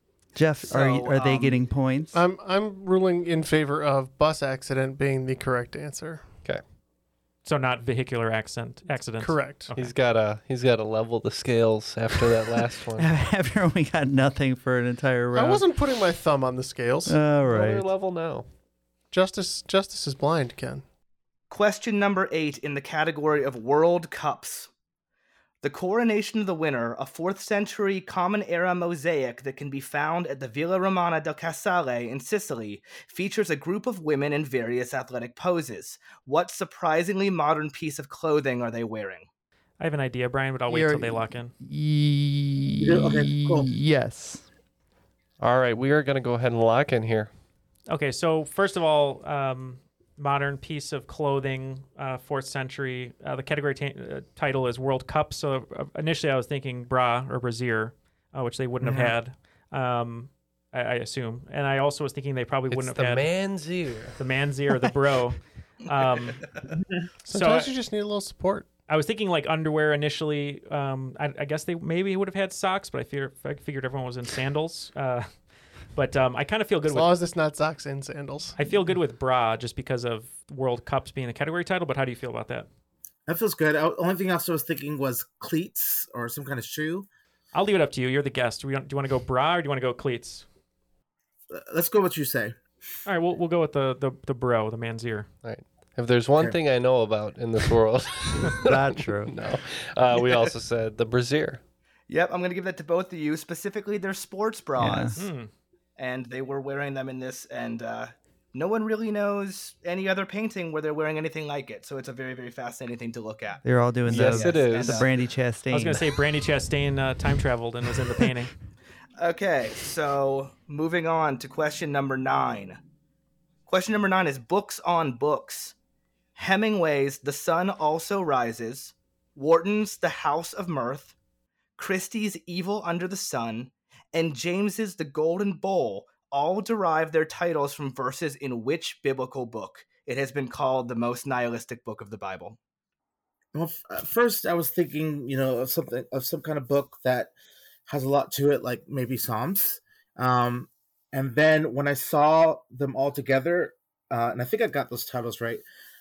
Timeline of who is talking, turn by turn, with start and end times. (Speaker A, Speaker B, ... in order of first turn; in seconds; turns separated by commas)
Speaker A: 0.3-2.2, Speaker B: 0.6-1.6, Speaker C: 2.1-6.3, Speaker D: 7.5-9.9, Speaker C: 9.2-9.7, Speaker E: 9.8-13.1, Speaker A: 13.0-15.7, Speaker C: 15.3-17.2, Speaker A: 17.1-17.9, Speaker E: 17.4-18.5, Speaker C: 19.1-20.8, Speaker B: 21.5-24.7, Speaker B: 25.6-39.3, Speaker D: 39.8-41.5, Speaker A: 40.7-44.5, Speaker F: 42.8-43.7, Speaker E: 45.4-47.3, Speaker D: 47.9-63.3, Speaker E: 62.7-64.2, Speaker D: 64.2-66.4, Speaker C: 67.2-68.7, Speaker D: 67.3-67.7, Speaker D: 68.9-75.3, Speaker D: 75.9-77.1, Speaker C: 76.9-78.6, Speaker D: 78.6-82.7, Speaker F: 83.3-87.1, Speaker D: 87.5-90.5, Speaker F: 91.5-92.6, Speaker D: 93.1-95.3, Speaker E: 95.4-101.6, Speaker A: 98.6-99.3, Speaker B: 102.1-105.3, Speaker A: 104.8-105.2, Speaker D: 105.2-105.5, Speaker B: 106.0-115.1, Speaker A: 113.6-116.0, Speaker E: 114.1-115.1, Speaker D: 115.7-118.5, Speaker B: 119.2-122.8, Speaker B: 123.7-125.8, Speaker B: 126.4-131.2, Speaker B: 131.8-142.6, Speaker F: 143.5-147.3, Speaker F: 147.9-155.6